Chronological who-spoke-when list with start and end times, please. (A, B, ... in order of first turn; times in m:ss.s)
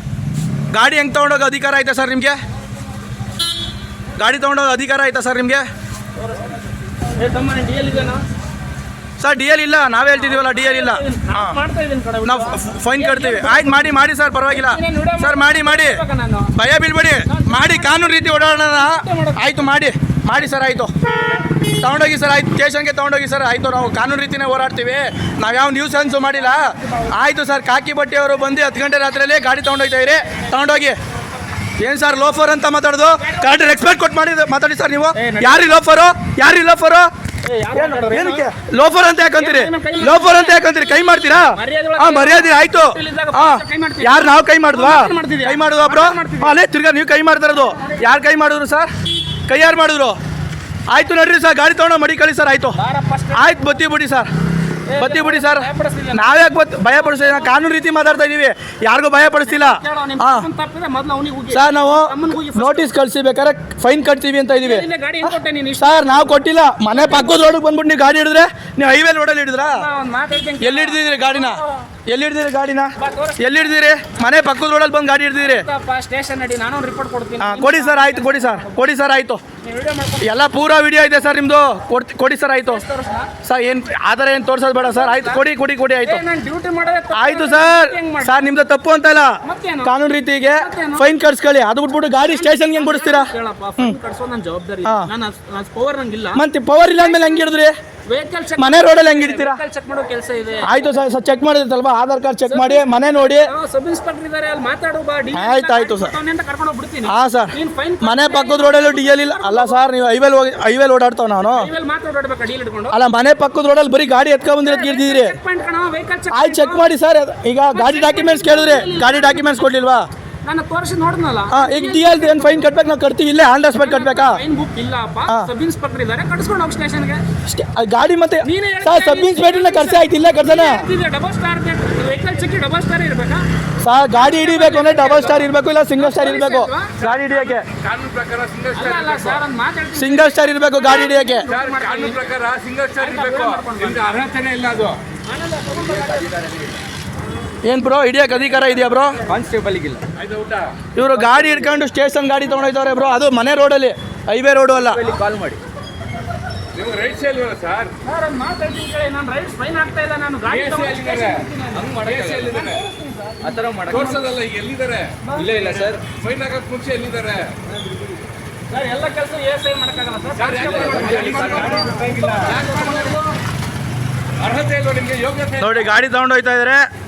0:00.7-0:02.4 A
0:04.2-0:05.6 A
0:06.2-0:06.5 B
0:07.2-0:08.2 B
0:09.2-0:11.6 A
0:10.3-0:13.9 B
0:12.2-0:16.0 A
0:14.5-0:16.5 B
0:16.5-0:20.9 A
0:17.2-0:19.5 B
0:21.6-0:31.0 A
0:26.8-0:27.1 B
0:31.8-0:37.1 A
0:33.2-0:33.7 B
0:35.1-0:35.7 B
0:37.4-0:38.4 B
0:37.7-0:48.9 A
0:39.3-0:46.6 B
0:49.5-0:50.2 A
0:50.9-0:52.8 A
0:52.8-0:53.7 B
0:53.3-0:54.3 A
0:54.9-0:57.6 B
0:55.0-1:00.5 A
0:59.4-1:02.9 B
1:01.5-1:09.8 A
1:04.6-1:06.0 B
1:06.9-1:07.5 B
1:09.6-1:11.8 B
1:10.6-1:15.6 A
1:13.0-1:13.6 B
1:15.4-1:18.7 B
1:17.4-1:19.4 A
1:19.6-1:20.3 B
1:20.2-1:22.8 A
1:22.7-1:23.3 B
1:23.4-1:26.2 A
1:24.8-1:25.4 B
1:26.0-1:28.4 B
1:27.1-1:29.3 A
1:29.4-1:29.9 B
1:29.8-1:34.0 A
1:30.6-1:31.1 B
1:32.2-1:37.5 B
1:36.3-1:37.7 A
1:38.1-1:40.7 B
1:38.6-1:39.6 A
1:40.6-1:43.5 A
1:42.5-1:49.8 B
1:45.3-1:46.1 A
1:47.0-1:51.7 A
1:51.6-1:53.0 B
1:52.9-1:55.4 A
1:54.6-1:56.9 B
1:56.3-2:00.0 A
1:57.7-1:59.7 B
2:00.4-2:02.7 B
2:01.5-2:04.4 A
2:03.8-2:07.2 B
2:07.5-2:10.9 A
2:08.4-2:13.4 B
2:13.8-2:17.6 A
2:14.1-2:17.0 B
2:17.1-2:19.4 C
2:18.7-2:22.3 B
2:19.9-2:21.5 A
2:21.5-2:25.0 C
2:23.0-2:24.0 B
2:25.2-2:26.4 B
2:25.8-2:26.8 D
2:27.6-2:29.2 A
2:29.2-2:30.0 D
2:30.2-2:30.8 C
2:30.9-2:35.0 A
2:34.8-2:35.6 D
2:36.7-2:37.9 C
2:38.0-2:44.2 B
2:40.5-2:42.8 C
2:43.4-2:44.2 D
2:43.9-2:47.6 C
2:45.3-2:46.0 D
2:48.7-2:53.3 B
2:50.4-2:52.6 C
2:51.0-2:52.0 D
2:54.4-2:55.8 C
2:55.6-2:56.9 A